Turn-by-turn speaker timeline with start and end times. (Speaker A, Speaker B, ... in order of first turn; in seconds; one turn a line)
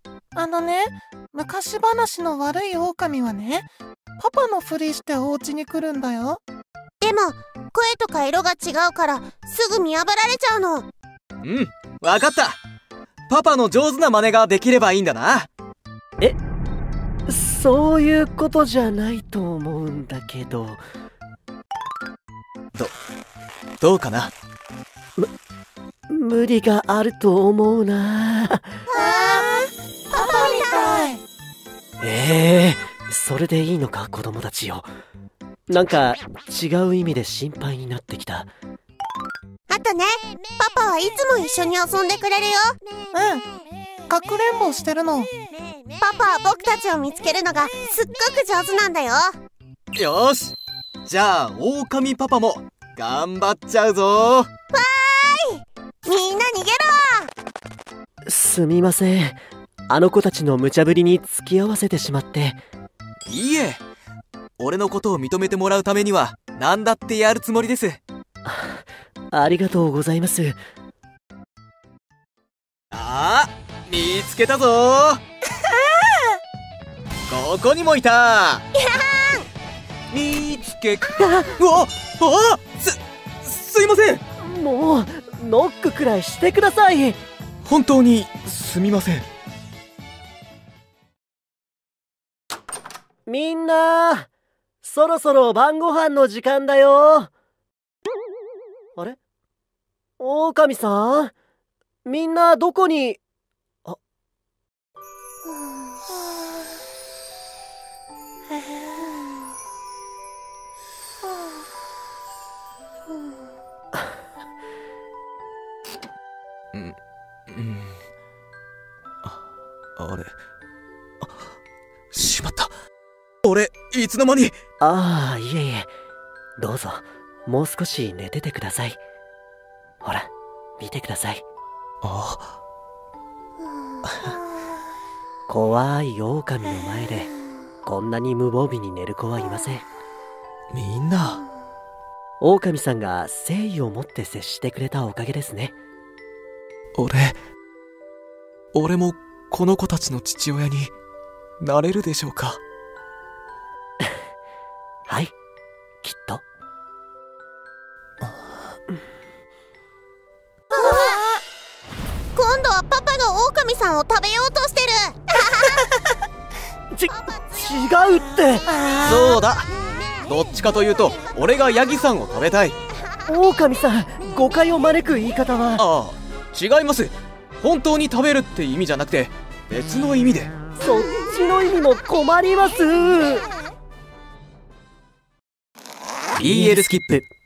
Speaker A: 0.4-3.7
Speaker A: 4.2-6.4
Speaker B: 7.0-10.9
Speaker C: 11.4-12.6
Speaker C: 13.3-15.5
Speaker D: 17.3-20.8
Speaker C: 23.8-24.3
Speaker D: 26.1-28.7
Speaker B: 28.9-31.1
Speaker A: 29.0-29.4
Speaker A: 30.1-31.2
Speaker D: 32.0-34.9
Speaker D: 35.7-38.5
Speaker B: 39.7-42.8
Speaker A: 43.1-43.4
Speaker A: 44.1-45.3
Speaker B: 46.0-49.4
Speaker C: 49.9-54.5
Speaker B: 54.7-57.3
Speaker D: 58.3-59.4
Speaker D: 59.9-62.6
Speaker C: 63.3-63.8
Speaker C: 64.6-68.0
Speaker D: 68.5-68.8
Speaker D: 69.3-70.6
Speaker C: 72.9-75.2
Speaker C: 77.3-78.7
Speaker B: 78.9-79.5
Speaker C: 80.1-84.2
Speaker D: 81.2-81.5
Speaker D: 84.4-87.2
Speaker C: 87.6-89.3
Speaker D: 93.3-94.3
Speaker D: 94.8-97.3
Speaker D: 100.2-101.3
Speaker D: 102.1-103.2
Speaker C: 117.5-118.0
Speaker C: 120.0-120.3
Speaker C: 122.1-122.7
Speaker C: 123.4-124.6
Speaker D: 124.8-125.9
Speaker D: 126.6-129.0
Speaker D: 130.0-130.3
Speaker D: 130.8-131.4
Speaker C: 132.0-132.6
Speaker D: 135.5-137.3
Speaker D: 137.8-139.8
Speaker C: 140.7-141.4
Speaker D: 142.4-145.7
Speaker C: 146.9-147.4
Speaker C: 148.7-150.9
Speaker C: 151.6-152.6
Speaker D: 155.1-155.3
Speaker D: 156.0-156.4
Speaker B: 160.7-161.2
Speaker B: 162.3-166.0
Speaker D: 166.9-168.7
Speaker A: 168.8-169.1
Speaker C: 169.0-169.7
Speaker C: 170.3-172.8
Speaker D: 173.3-175.8
Speaker C: 175.8-180.5
Speaker D: 180.8-183.4
Speaker C: 186.3-187.2
Speaker D: 186.4-187.2